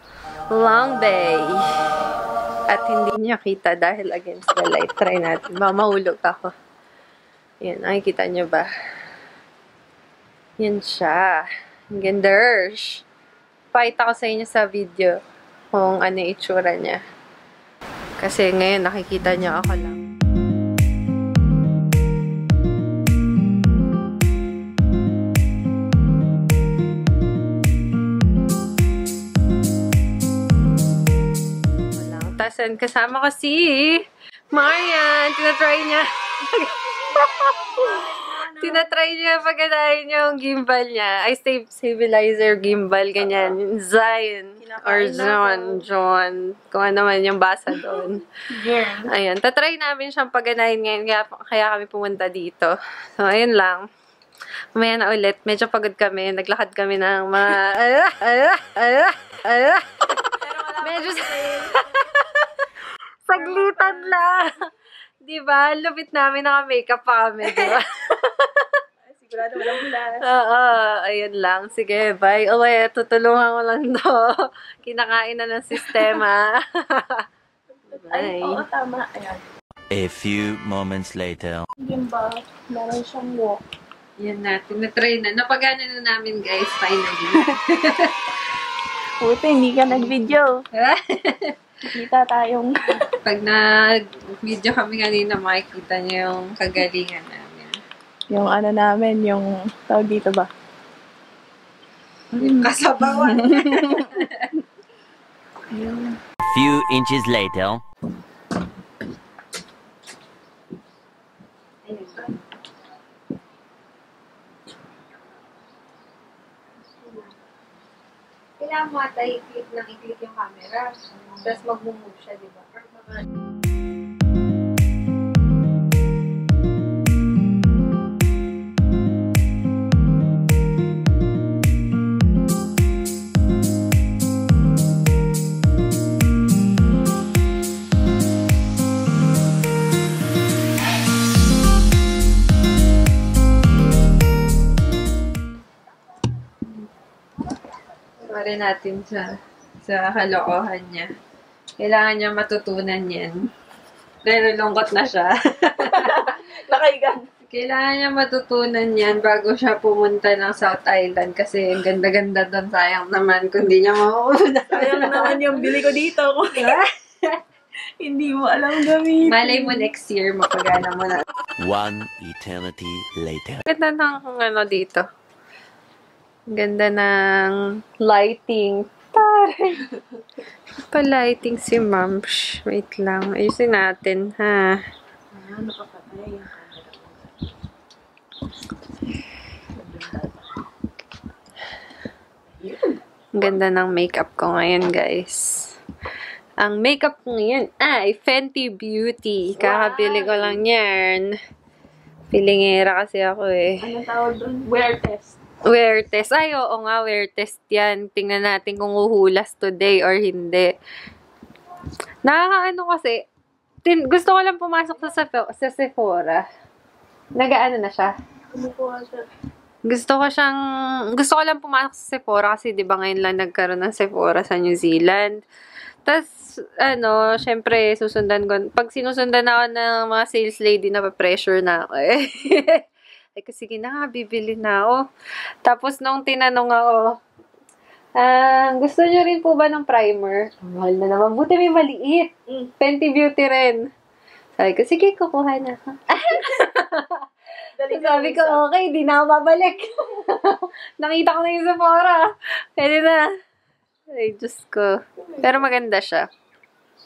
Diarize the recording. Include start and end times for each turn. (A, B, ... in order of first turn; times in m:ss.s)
0:00.5-0:01.6 A
0:02.7-0:06.5 A
0:07.6-0:08.7 A
0:10.6-0:11.4 A
0:11.9-0:13.0 A
0:13.7-0:15.2 A
0:15.7-0:17.0 A
0:18.2-0:20.0 A
0:32.0-0:53.8 A
0:37.0-0:38.9 B
0:44.6-0:45.8 B
0:48.5-0:49.0 B
0:54.7-0:59.8 A
1:00.4-1:01.8 B
1:00.8-1:02.5 A
1:03.2-1:04.5 A
1:03.3-1:04.2 B
1:05.2-1:08.8 A
1:09.0-1:10.2 B
1:10.2-1:17.2 A
1:15.9-1:16.2 B
1:17.9-1:19.4 B
1:17.9-1:18.6 A
1:19.9-1:21.7 C
1:21.8-1:23.6 B
1:24.2-1:28.4 A
1:29.2-1:30.6 B
1:30.7-1:31.5 A
1:31.9-1:33.0 B
1:33.1-1:37.8 A
1:38.3-1:40.5 B
1:42.3-1:44.5 A
1:42.4-1:44.0 B
1:45.7-1:46.2 B
1:46.4-1:47.8 C
1:51.8-1:52.4 A
1:57.0-1:57.3 A
1:58.6-2:03.2 A
2:28.2-2:29.3 A
2:29.8-2:31.1 A
2:31.8-2:33.3 A
2:34.2-2:36.4 A
2:35.9-2:37.2 B
2:37.5-2:45.7 A
2:44.7-2:46.8 B
2:46.5-2:47.4 A
2:48.0-2:49.8 B
2:49.2-2:51.2 A
2:51.6-2:53.6 C
2:53.7-2:55.0 A
2:56.5-2:59.8 A
3:00.9-3:04.7 A
3:05.3-3:07.3 B
3:09.8-3:10.4 B
3:12.5-3:13.0 B
3:13.3-3:15.7 A
3:16.6-3:21.3 A
3:19.6-3:20.6 B
3:22.3-3:23.8 A
3:23.8-3:25.4 B
3:25.6-3:30.7 A
3:32.2-3:33.2 A
3:33.8-3:36.4 A
3:37.3-3:38.1 A
3:38.5-3:39.2 B
3:39.8-3:40.6 A
3:41.2-3:45.4 A
3:46.0-3:52.8 A
3:53.4-3:55.0 A
3:55.6-3:57.0 A
3:58.2-4:03.8 A
4:04.6-4:07.2 A
4:07.8-4:08.6 B
4:07.9-4:13.3 A
4:14.1-4:16.2 A
4:15.3-4:15.7 B